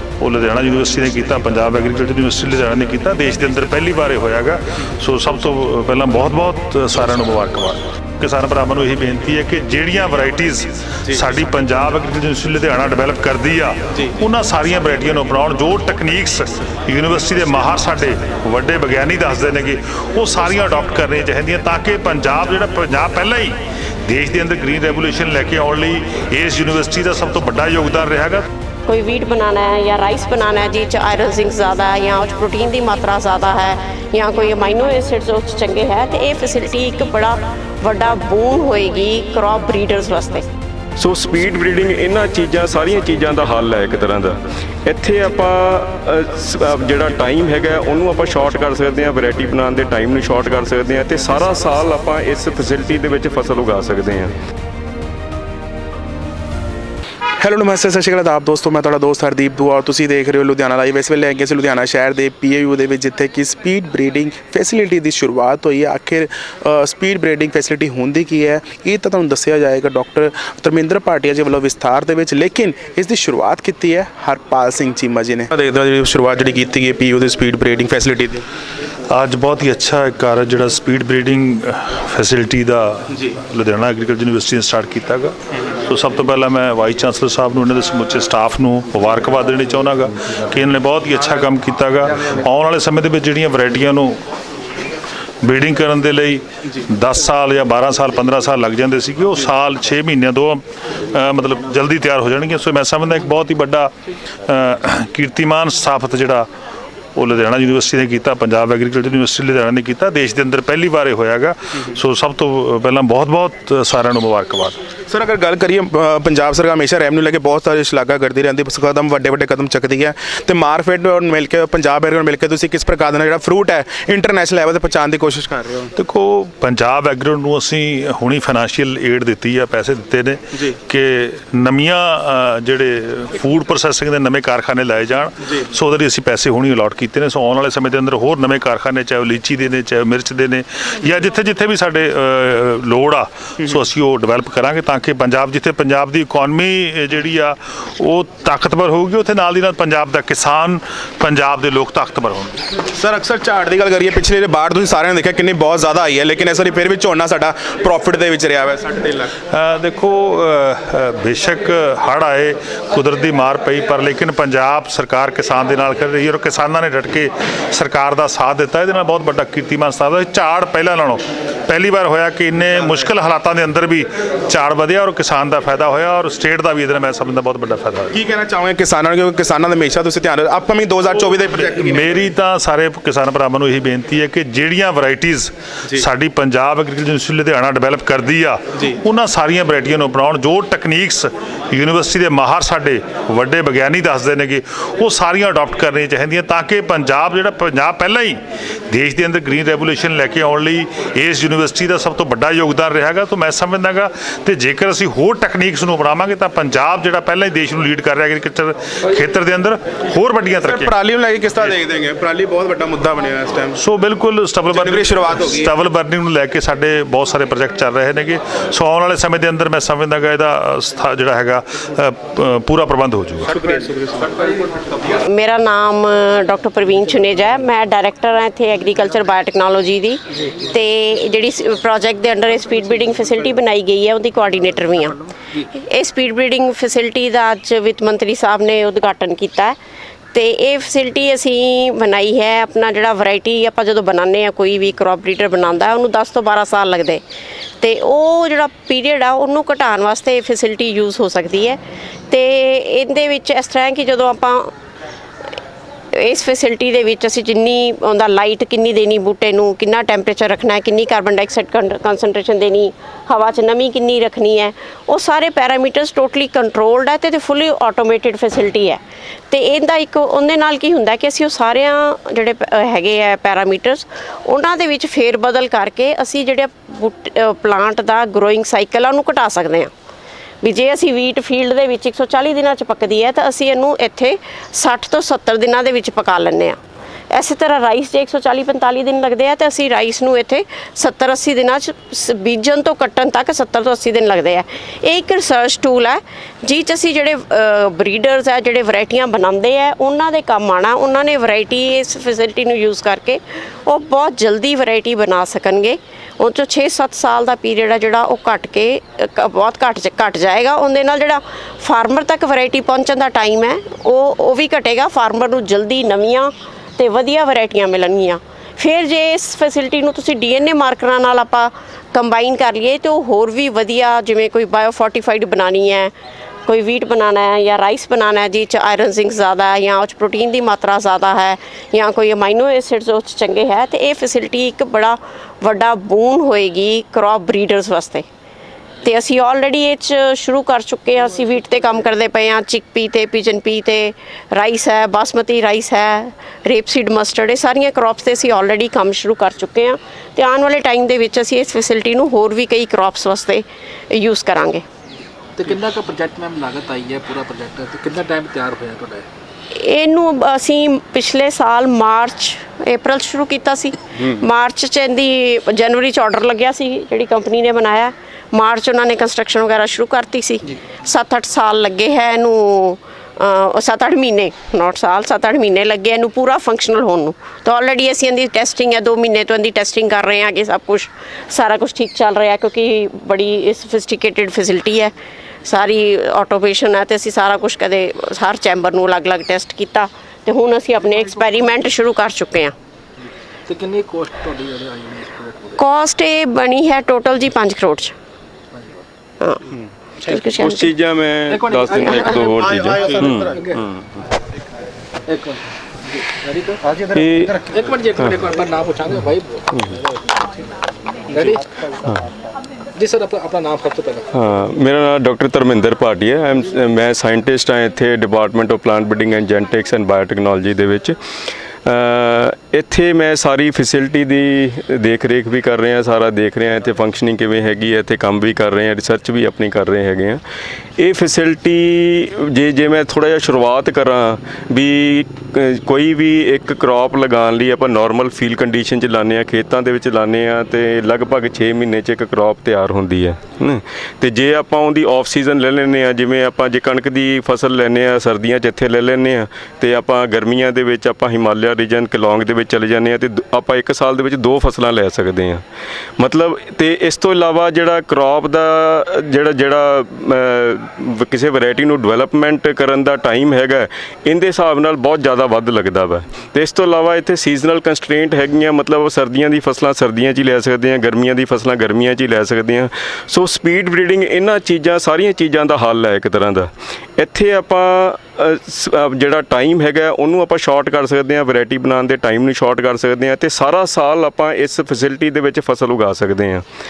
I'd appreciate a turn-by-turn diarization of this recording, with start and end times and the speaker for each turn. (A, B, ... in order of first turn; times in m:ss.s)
0:00.2-0:28.4 A
0:28.9-0:40.4 B
0:41.0-0:54.4 C
0:57.4-1:18.4 D
1:19.1-1:34.2 A
1:35.4-1:43.9 A
1:44.4-1:46.5 A
1:47.2-1:54.8 A
1:55.1-2:05.9 D
2:06.0-2:32.6 A
2:33.0-2:39.3 D
2:39.5-2:58.2 A
2:58.1-3:02.0 D
3:01.7-3:30.9 A
3:30.6-3:33.8 D
3:33.8-3:43.6 A
3:34.7-3:35.7 D
3:43.7-3:44.3 D
3:45.2-3:59.8 B
4:00.3-4:07.2 B
4:07.8-4:14.7 B
4:16.2-4:39.9 B
4:40.6-4:46.8 B
4:47.3-5:26.1 B
5:26.7-5:38.2 B
5:39.0-5:54.8 B
5:55.6-5:59.3 E
5:59.7-6:25.1 B
6:25.6-6:32.7 B
6:33.7-6:35.8 E
6:35.8-6:38.1 B
6:40.2-6:40.9 B
6:40.6-6:44.2 C
6:41.5-6:43.8 E
6:45.3-6:45.7 E
6:46.3-6:47.0 E
6:47.1-6:47.6 C
6:47.6-6:50.0 E
6:49.7-6:50.0 C
6:51.3-6:51.8 E
6:53.0-6:54.3 E
6:54.3-7:01.2 C
7:01.8-7:10.4 C
7:11.0-7:35.6 C
7:36.2-8:06.6 C